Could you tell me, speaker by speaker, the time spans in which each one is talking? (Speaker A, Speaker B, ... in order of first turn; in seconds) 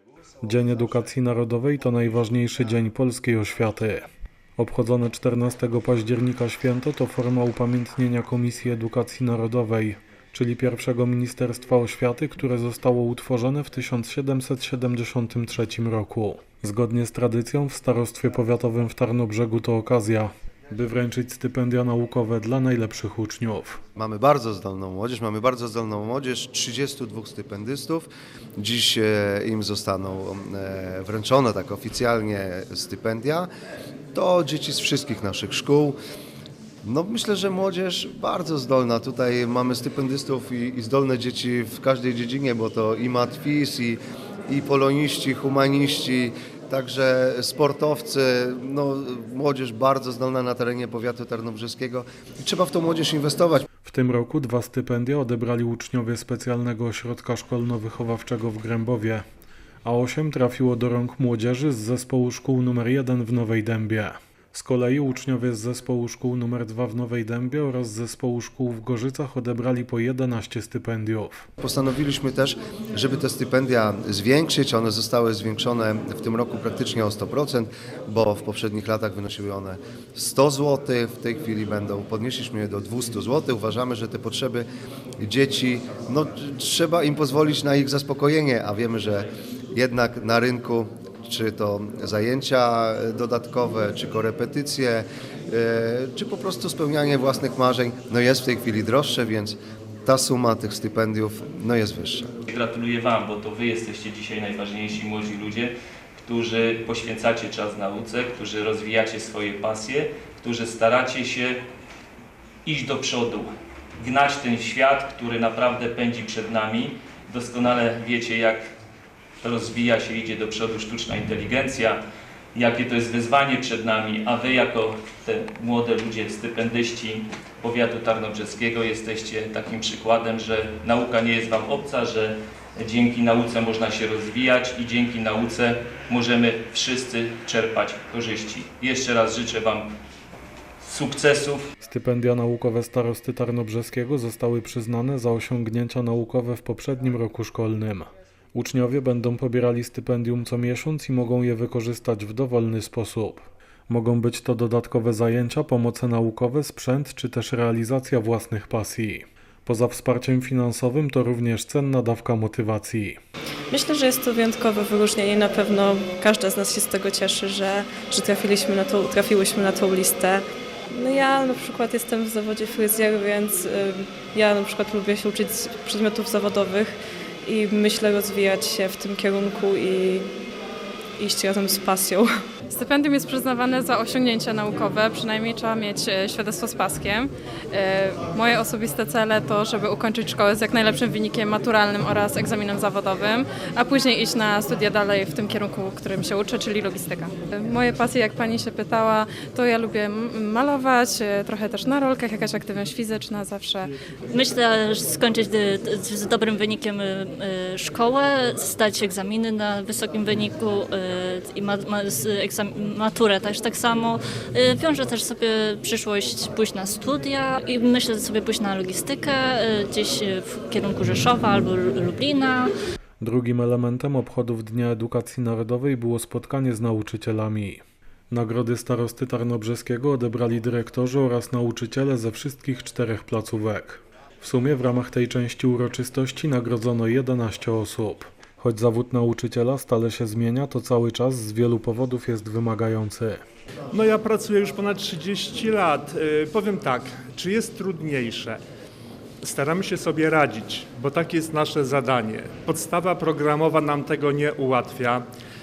Speaker A: 0.4-4.0, 4.6-23.8, 53.8-59.2, 59.8-71.5, 141.8-163.2, 223.2-243.4
Speaker B: 23.9-33.5, 34.1-36.0, 36.8-53.6, 71.6-84.7, 85.2-102.3
Speaker C: 102.5-111.6, 112.6-113.5, 114.0-118.6, 119.4-122.0, 122.5-139.9, 140.8-141.6
Speaker D: 163.7-180.3, 181.2-182.3
Speaker E: 182.7-203.9
Speaker F: 204.3-222.7
Speaker G: 243.9-248.6, 249.4-255.2